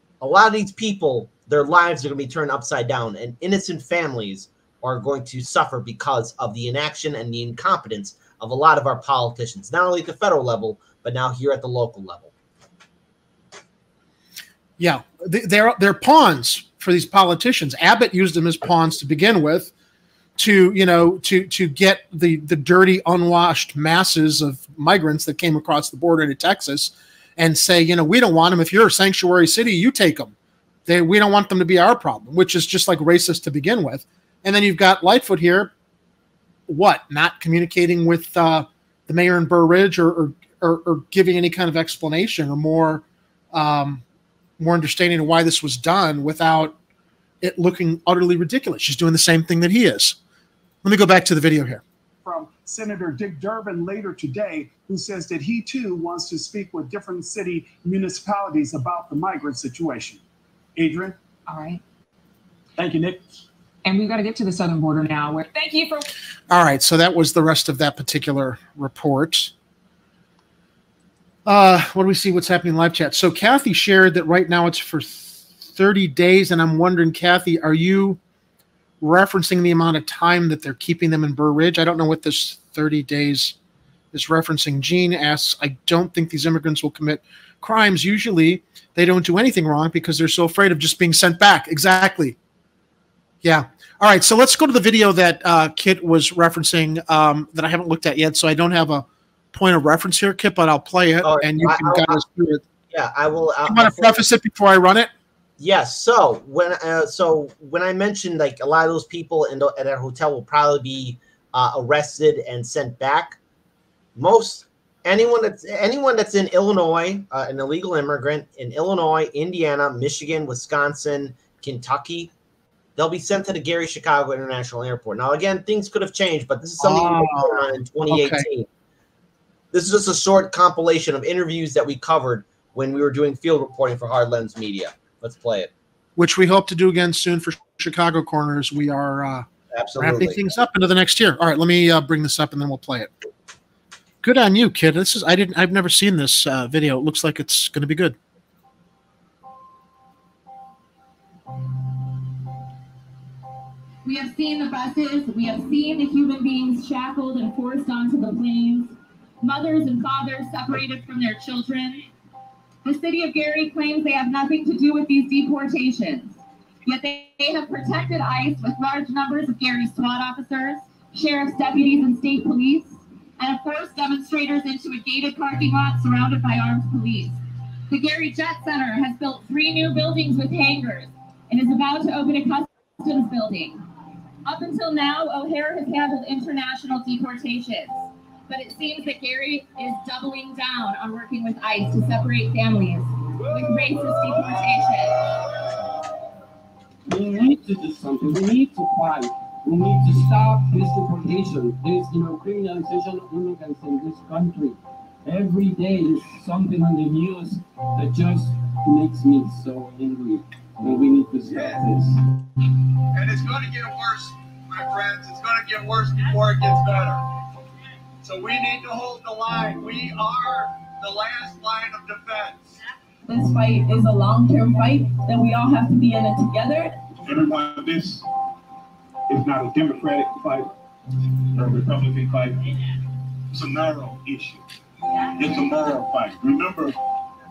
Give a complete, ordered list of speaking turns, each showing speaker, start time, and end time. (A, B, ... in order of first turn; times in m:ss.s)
0:00.2-0:12.3 A
0:14.8-0:19.7 B
0:20.4-0:30.3 B
0:30.9-0:35.7 B
0:36.7-0:44.0 B
0:44.6-0:46.8 B
0:47.4-0:50.2 B
0:50.8-0:51.8 B
0:52.2-1:00.2 C
1:00.8-1:01.2 C
1:01.5-1:01.8 D
1:02.8-1:03.4 C
1:03.8-1:06.1 D
1:06.5-1:09.5 B
1:11.5-1:18.2 B
1:19.0-1:23.6 B
1:24.1-1:32.4 B
1:33.4-1:42.6 B
1:41.2-1:42.2 A
1:42.9-1:44.2 A
1:43.7-1:45.1 B
1:45.6-1:53.4 A
1:54.2-2:02.3 A
2:03.0-2:08.7 A
2:06.8-2:08.5 B
2:09.7-2:15.7 A
2:16.2-2:19.5 B
2:19.7-2:20.4 A
2:20.0-2:23.1 B
2:24.2-2:28.2 B
2:34.0-2:42.1 E
2:42.8-3:03.8 E
3:04.4-3:15.3 E
3:17.1-3:32.2 F
3:31.5-3:31.8 G
3:33.1-3:37.2 G
3:38.2-3:42.7 G
3:43.3-3:47.0 E
3:47.3-3:48.3 H
3:49.3-3:50.7 H
3:51.5-3:52.6 H
3:53.5-3:54.6 H
3:55.4-3:56.9 H